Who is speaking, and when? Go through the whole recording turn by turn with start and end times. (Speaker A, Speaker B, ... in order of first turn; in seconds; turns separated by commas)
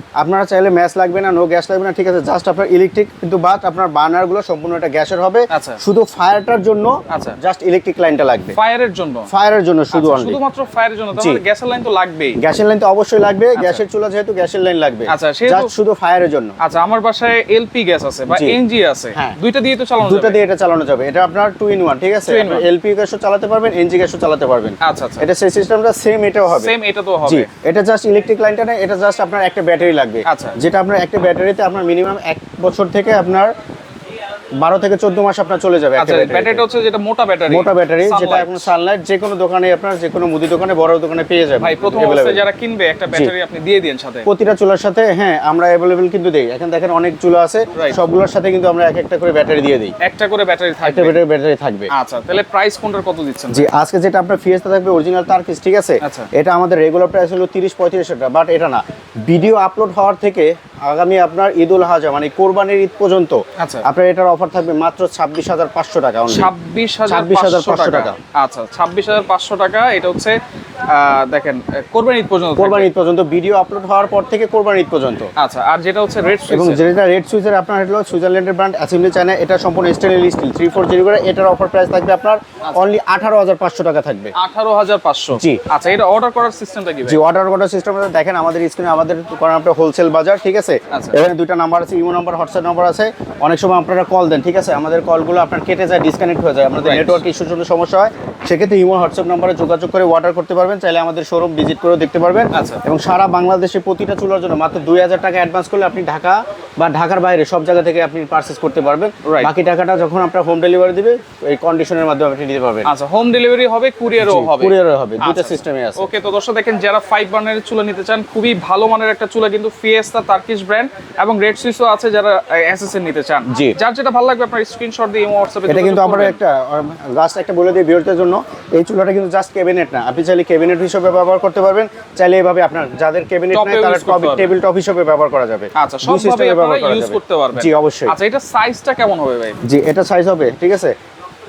Speaker A: 0.2-8.6, Speaker B: 5.5-5.8, Speaker B: 7.1-7.4, Speaker B: 8.6-9.3, Speaker A: 9.3-10.4, Speaker B: 9.9-12.4, Speaker A: 11.1-11.4, Speaker A: 12.4-16.6, Speaker B: 13.6-13.8, Speaker B: 15.1-15.7, Speaker B: 16.6-20.4, Speaker A: 18.3-18.6, Speaker A: 20.0-26.7, Speaker B: 22.3-22.7, Speaker B: 24.8-25.3, Speaker B: 26.5-27.5, Speaker A: 27.3-33.5, Speaker B: 30.3-30.6, Speaker A: 34.6-36.6, Speaker B: 36.0-38.7, Speaker A: 37.5-42.4, Speaker B: 41.6-44.3, Speaker A: 44.3-50.0, Speaker B: 50.0-51.2, Speaker A: 50.8-51.9, Speaker B: 51.9-53.7, Speaker A: 53.5-66.5, Speaker B: 56.0-56.3, Speaker B: 63.6-63.9, Speaker B: 66.3-70.4, Speaker A: 67.1-68.2, Speaker B: 70.9-72.9, Speaker A: 72.6-75.3, Speaker B: 75.4-76.8, Speaker A: 76.5-84.3, Speaker B: 82.6-82.9, Speaker B: 84.3-87.2, Speaker A: 85.4-85.6, Speaker A: 87.0-112.9, Speaker B: 90.9-91.2, Speaker B: 96.8-97.2, Speaker B: 102.5-102.8, Speaker B: 109.2-109.5, Speaker B: 112.8-126.4, Speaker A: 114.2-116.1, Speaker A: 123.5-123.8, Speaker A: 125.7-138.2, Speaker B: 133.5-134.5, Speaker B: 135.8-139.6, Speaker A: 139.6-140.9